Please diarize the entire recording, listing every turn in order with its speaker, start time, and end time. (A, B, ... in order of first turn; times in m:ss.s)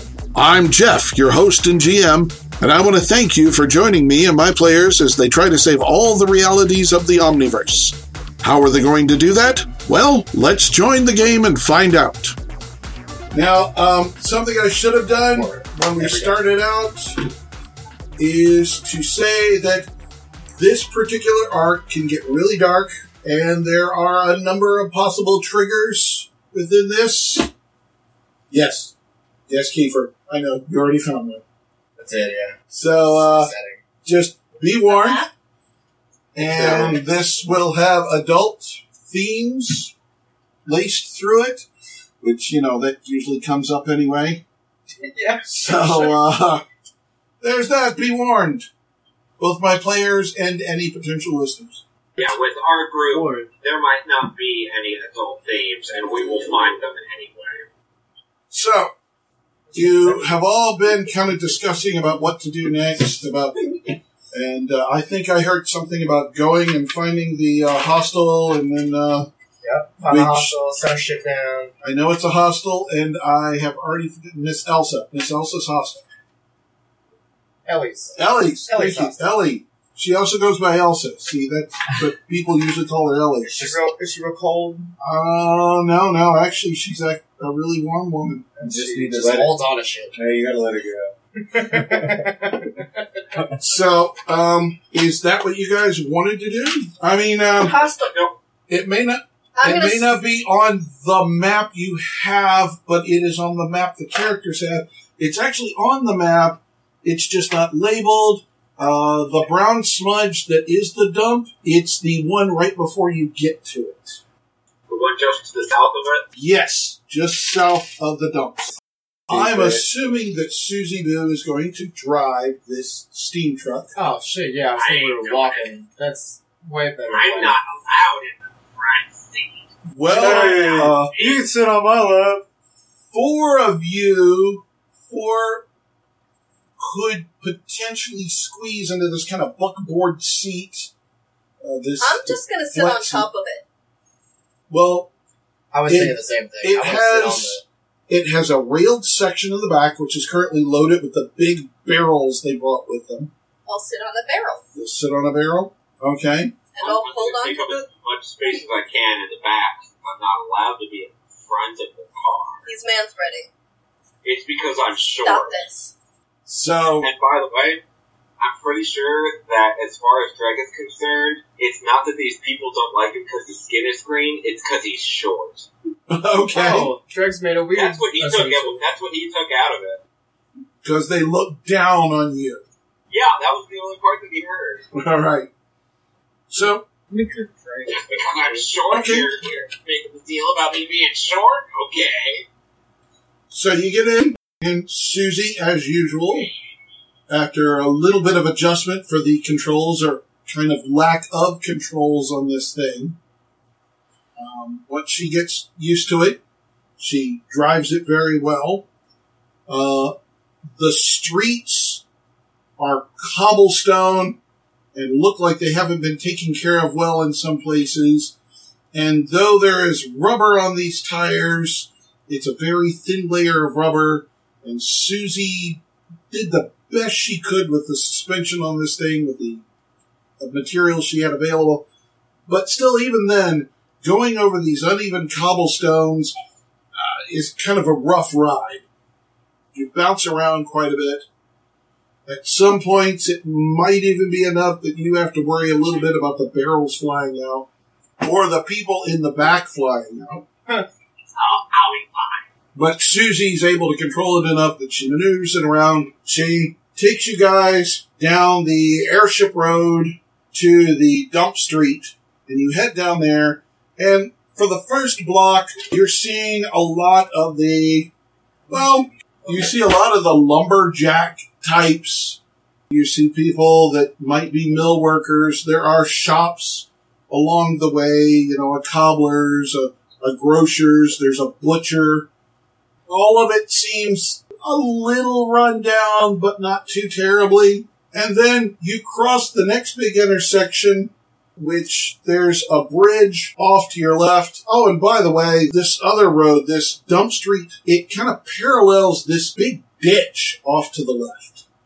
0:00.3-0:12.4 A
0:13.3-0:17.3 A
0:15.3-0:16.4 B
0:18.2-0:19.9 A
0:20.6-0:27.5 A
0:28.5-0:28.9 A
0:29.5-0:31.4 A
0:32.0-0:33.8 B
0:32.7-0:33.5 A
0:34.0-0:35.3 A
0:34.9-0:35.3 C
0:36.3-0:39.9 A
0:36.5-0:37.0 B
0:40.6-0:41.7 A
0:42.2-0:44.4 A
0:45.0-0:46.1 B
0:45.4-0:46.6 A
0:47.4-0:48.7 A
0:49.4-0:51.8 A
0:52.2-0:57.7 D
0:53.1-0:53.5 E
0:58.5-0:58.9 A
0:59.7-1:00.2 B
0:59.7-1:09.3 A
1:09.6-1:11.7 B
1:10.0-1:10.5 A
1:11.8-1:16.0 A
1:17.6-1:19.2 B
1:18.2-1:23.8 A
1:23.4-1:24.9 B
1:25.0-1:29.5 A
1:28.6-1:29.5 E
1:28.6-1:30.2 B
1:30.1-1:32.3 E
1:31.4-1:32.9 B
1:33.3-1:33.6 E
1:33.6-1:37.7 A
1:37.6-1:38.1 C
1:37.9-1:38.4 D
1:38.7-1:54.2 A
1:39.6-1:40.2 C
1:54.9-1:56.2 D
1:56.3-1:58.8 A
1:59.3-2:04.0 A
1:59.3-1:59.8 E
2:03.9-2:07.6 B
2:04.8-2:05.7 D
2:07.1-2:09.7 D
2:09.9-2:11.1 A
2:10.0-2:12.4 E
2:10.1-2:10.8 B
2:11.1-2:11.5 D
2:13.1-2:15.6 A
2:16.8-2:20.9 A
2:21.6-2:23.3 A
2:22.0-2:23.6 C
2:24.7-2:25.1 A
2:25.7-2:27.6 B
2:25.9-2:33.3 A
2:33.6-2:34.6 C
2:34.7-2:36.5 A
2:36.7-2:37.8 C
2:36.8-2:42.7 D
2:42.6-2:43.5 C
2:44.2-2:45.6 D
2:45.2-2:45.9 C
2:46.4-2:47.1 A
2:47.0-2:47.8 D
2:48.4-2:55.7 D
2:56.1-2:56.9 A
2:56.5-2:58.8 B
2:57.7-3:00.0 D
3:00.8-3:02.6 A
3:03.1-3:04.9 D
3:04.9-3:05.5 A
3:06.5-3:06.8 A
3:07.1-3:08.6 B
3:07.9-3:12.4 D
3:08.9-3:09.4 A
3:13.5-3:16.5 A
3:17.3-3:23.2 A
3:24.4-3:26.4 A
3:27.0-3:28.8 A
3:29.7-3:30.1 A
3:30.7-3:32.0 A
3:32.8-3:34.4 A
3:34.9-3:38.3 A
3:38.9-3:49.6 A
3:50.4-3:51.8 A
3:52.5-3:56.3 A
3:56.9-3:58.8 A
3:59.7-4:01.2 A
4:02.2-4:07.7 A
4:08.2-4:10.4 A
4:11.3-4:12.4 D
4:12.7-4:28.1 A
4:28.7-4:42.3 A
4:43.1-5:01.6 A